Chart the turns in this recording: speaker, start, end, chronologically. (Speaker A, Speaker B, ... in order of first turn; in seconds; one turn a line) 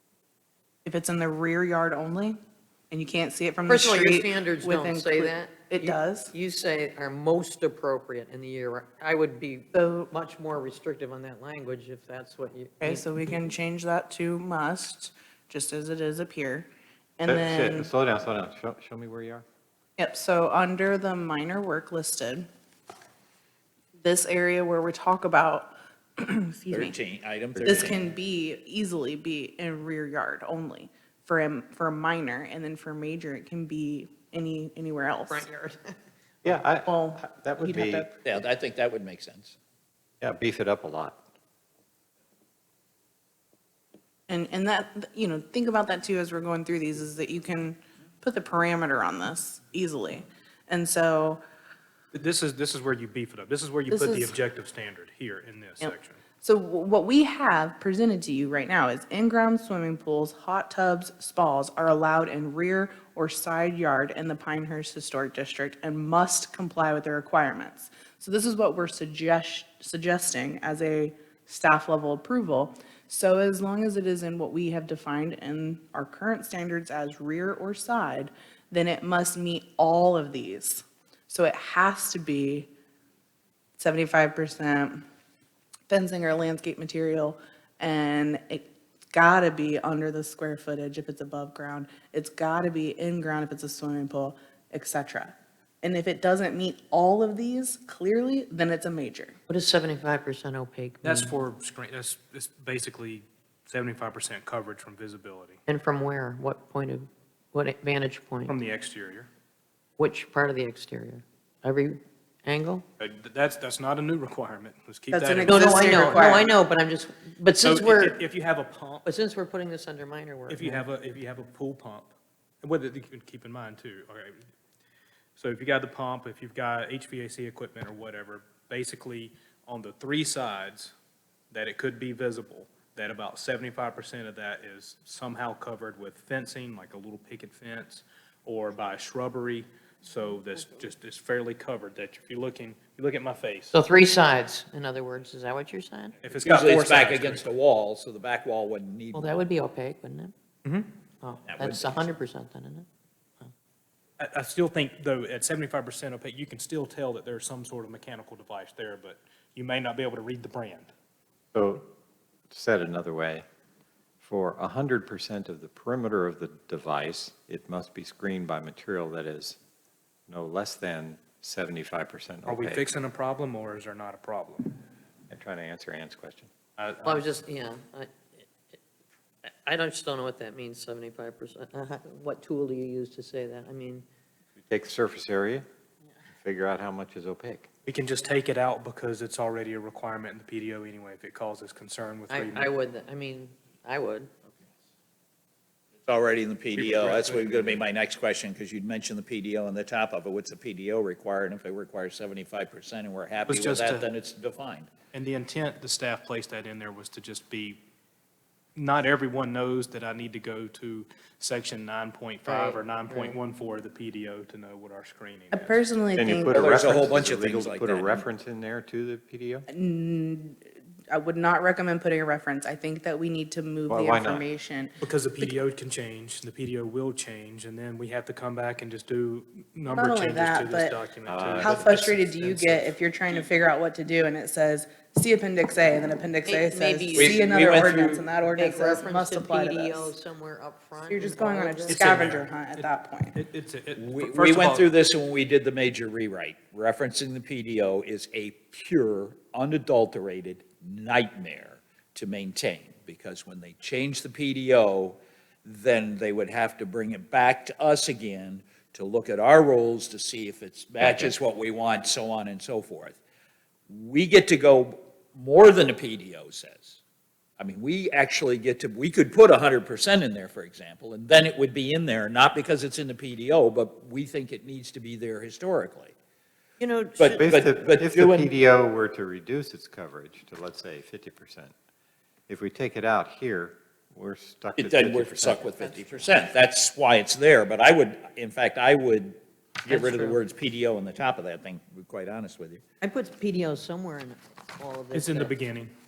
Speaker A: 0.8-2.4
Speaker A: 2.9-6.3
Speaker B: 3.7-13.1
Speaker A: 9.7-10.1
Speaker A: 12.8-17.9
Speaker C: 17.3-19.4
Speaker A: 20.0-22.5
Speaker A: 24.0-27.0
Speaker D: 26.7-28.0
Speaker C: 27.6-27.9
Speaker A: 27.6-35.5
Speaker B: 35.3-36.0
Speaker C: 36.4-38.2
Speaker A: 36.9-38.0
Speaker D: 38.2-39.6
Speaker C: 40.2-41.2
Speaker A: 44.3-51.4
Speaker E: 52.1-56.2
Speaker A: 53.9-54.3
Speaker A: 55.8-82.7
Speaker A: 83.8-85.1
Speaker A: 85.9-99.4
Speaker B: 99.5-101.3
Speaker E: 101.0-105.6
Speaker B: 105.7-108.6
Speaker E: 108.5-109.3
Speaker B: 110.0-112.8
Speaker E: 113.0-116.3
Speaker A: 115.1-116.5
Speaker B: 115.5-118.2
Speaker E: 117.6-119.1
Speaker B: 119.0-120.8
Speaker E: 120.5-122.1
Speaker E: 122.6-124.4
Speaker E: 125.4-130.9
Speaker E: 131.5-143.7
Speaker B: 143.7-146.2
Speaker E: 146.2-147.5
Speaker D: 146.4-149.5
Speaker B: 149.1-150.3
Speaker E: 150.7-150.9
Speaker B: 151.2-152.9
Speaker D: 151.5-152.1
Speaker E: 154.2-160.9
Speaker C: 161.5-161.9
Speaker C: 162.5-163.4
Speaker C: 164.2-169.6
Speaker C: 170.3-172.8
Speaker E: 172.5-174.8
Speaker C: 175.3-176.5
Speaker E: 176.8-177.2
Speaker B: 177.0-178.1
Speaker B: 179.6-184.1
Speaker C: 184.7-185.7
Speaker C: 186.4-187.7
Speaker E: 187.8-192.7
Speaker B: 192.3-194.3
Speaker D: 196.0-204.9
Speaker E: 196.8-197.9
Speaker E: 203.5-204.1
Speaker E: 205.1-207.8
Speaker E: 208.8-215.8
Speaker B: 212.4-213.4
Speaker A: 215.5-217.0
Speaker C: 216.2-219.7
Speaker D: 216.5-218.2
Speaker A: 219.7-225.6
Speaker C: 223.9-224.4
Speaker E: 225.0-232.9
Speaker A: 229.9-231.0
Speaker C: 231.3-231.9
Speaker A: 231.6-240.1
Speaker B: 236.5-242.2
Speaker D: 237.2-238.2
Speaker A: 241.1-243.4
Speaker E: 241.9-244.9
Speaker D: 244.0-263.2
Speaker D: 263.9-267.0
Speaker D: 267.6-276.1
Speaker B: 276.8-277.5
Speaker D: 277.2-278.5
Speaker C: 277.4-281.7
Speaker C: 282.5-285.6
Speaker D: 284.8-292.8
Speaker B: 285.5-286.5
Speaker B: 289.9-290.4
Speaker B: 293.0-295.6
Speaker E: 295.1-295.9